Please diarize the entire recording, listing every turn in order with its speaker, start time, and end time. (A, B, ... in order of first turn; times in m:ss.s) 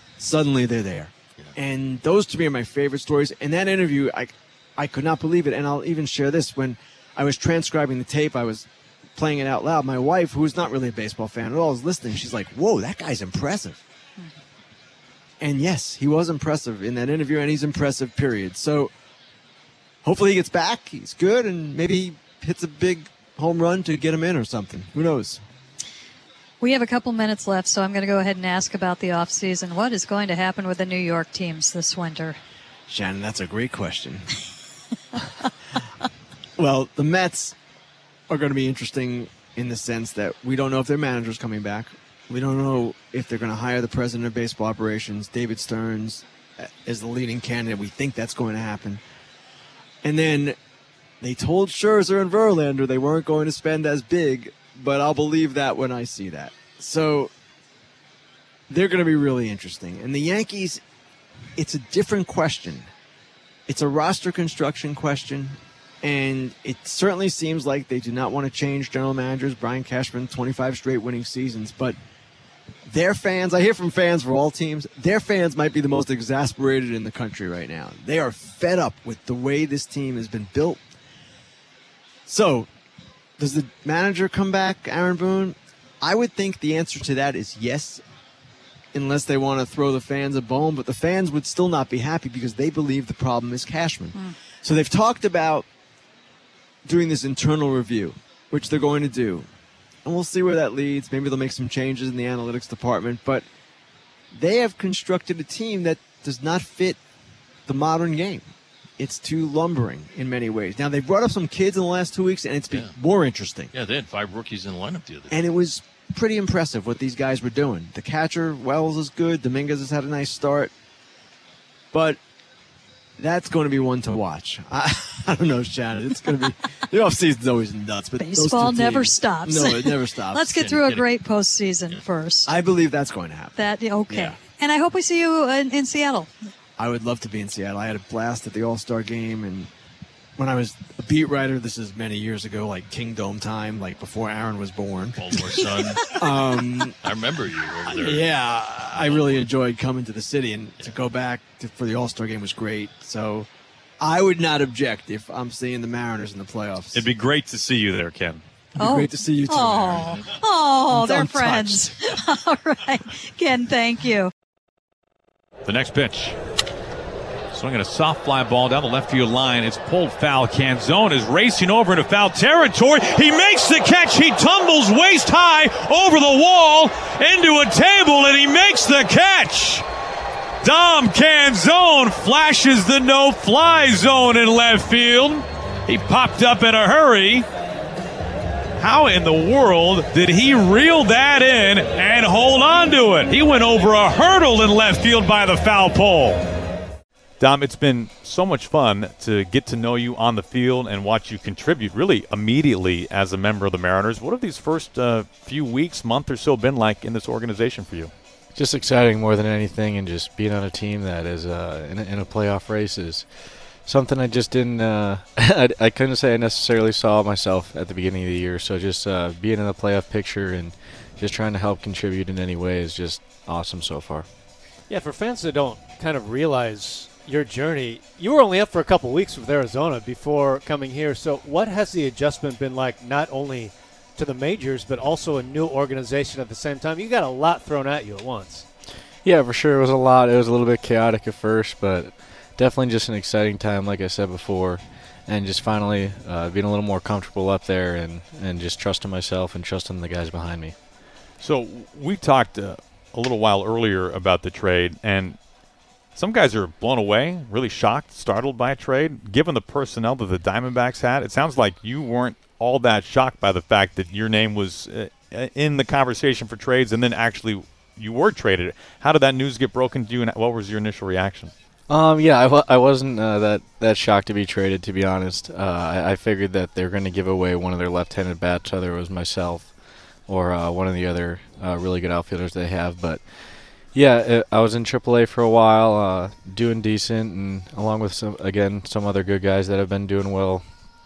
0:00.2-0:13.8 A
0:15.4-0:18.9 A
0:20.0-0:25.4 A
0:26.6-0:32.4 B
0:32.9-0:34.3 A
0:36.6-0:37.5 A
0:38.3-0:49.0 A
0:50.0-0:50.6 A
0:51.2-0:57.3 A
0:58.7-1:00.8 A
1:01.6-1:02.9 A
1:03.7-1:12.0 A
1:12.9-1:20.8 A
1:22.2-1:22.7 A
1:23.4-1:28.0 A
1:28.9-1:35.6 A
1:36.8-1:39.5 A
1:40.0-1:43.4 A
1:44.3-1:47.0 A
1:47.6-1:48.5 A
1:49.0-1:53.7 A
1:53.7-1:55.4 C
1:55.3-2:00.7 A
2:01.9-2:02.2 A
2:03.2-2:10.5 A
2:08.2-2:12.5 B
2:10.5-2:11.1 C
2:12.5-2:13.6 A
2:13.6-2:16.3 B
2:14.1-2:14.4 A
2:16.8-2:19.7 A
2:20.4-2:25.3 A
2:25.2-2:26.1 C
2:26.0-2:27.0 A
2:27.0-2:28.3 C
2:27.9-2:33.5 A
2:28.9-2:29.5 C
2:34.0-2:37.0 A
2:36.9-2:38.4 D
2:38.8-2:40.3 A
2:38.8-2:44.3 B
2:40.9-2:41.8 A
2:45.6-2:46.4 D
2:47.5-2:59.8 D
3:00.6-3:07.5 D
3:08.8-3:16.4 D
3:17.4-3:28.1 D
3:28.6-3:44.3 E
3:44.9-3:58.7 F
3:59.2-4:10.8 E
4:11.4-4:15.4 D
4:16.1-4:31.5 D
4:31.9-4:39.7 E
4:40.3-4:50.6 E